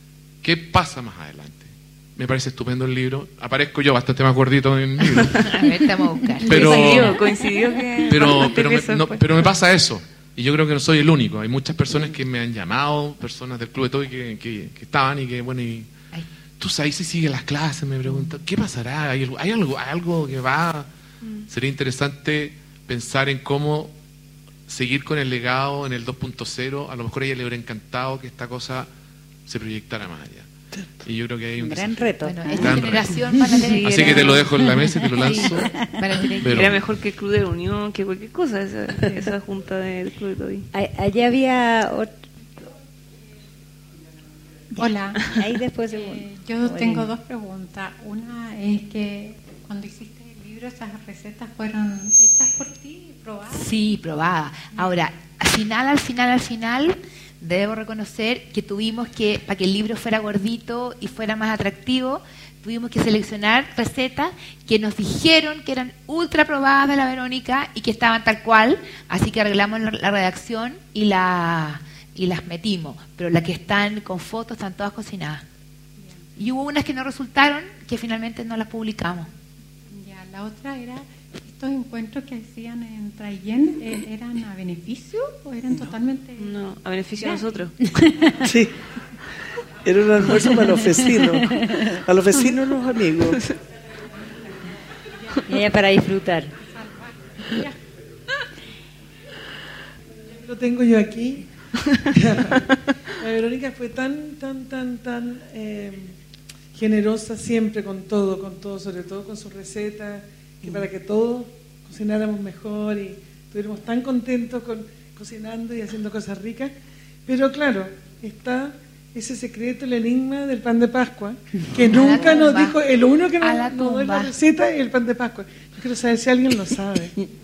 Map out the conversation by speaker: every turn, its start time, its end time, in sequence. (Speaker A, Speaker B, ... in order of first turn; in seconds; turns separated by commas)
Speaker A: 0.4-5.4, Speaker B: 5.1-5.4, Speaker C: 5.4-6.9, Speaker A: 6.4-7.2, Speaker B: 6.4-9.5, Speaker A: 8.1-15.9, Speaker A: 16.6-20.9, Speaker A: 21.5-23.9, Speaker A: 24.7-28.9, Speaker A: 29.4-30.5, Speaker D: 30.7-31.0, Speaker A: 31.0-33.2, Speaker E: 31.6-33.6, Speaker C: 32.2-34.6, Speaker A: 33.8-36.8, Speaker B: 33.8-34.4, Speaker C: 35.1-36.8, Speaker B: 36.4-40.7, Speaker E: 40.7-42.1, Speaker F: 44.7-45.3, Speaker E: 44.8-47.1, Speaker F: 45.9-53.8, Speaker C: 53.5-75.4, Speaker C: 76.4-79.3, Speaker F: 79.9-86.6, Speaker B: 86.4-87.8, Speaker F: 87.2-87.5, Speaker D: 88.4-88.7, Speaker D: 89.8-93.4, Speaker E: 95.5-96.5, Speaker F: 96.7-97.8, Speaker G: 100.4-101.5, Speaker G: 102.1-106.1, Speaker G: 106.7-116.7, Speaker G: 117.2-127.1, Speaker C: 121.9-122.8, Speaker C: 123.4-124.3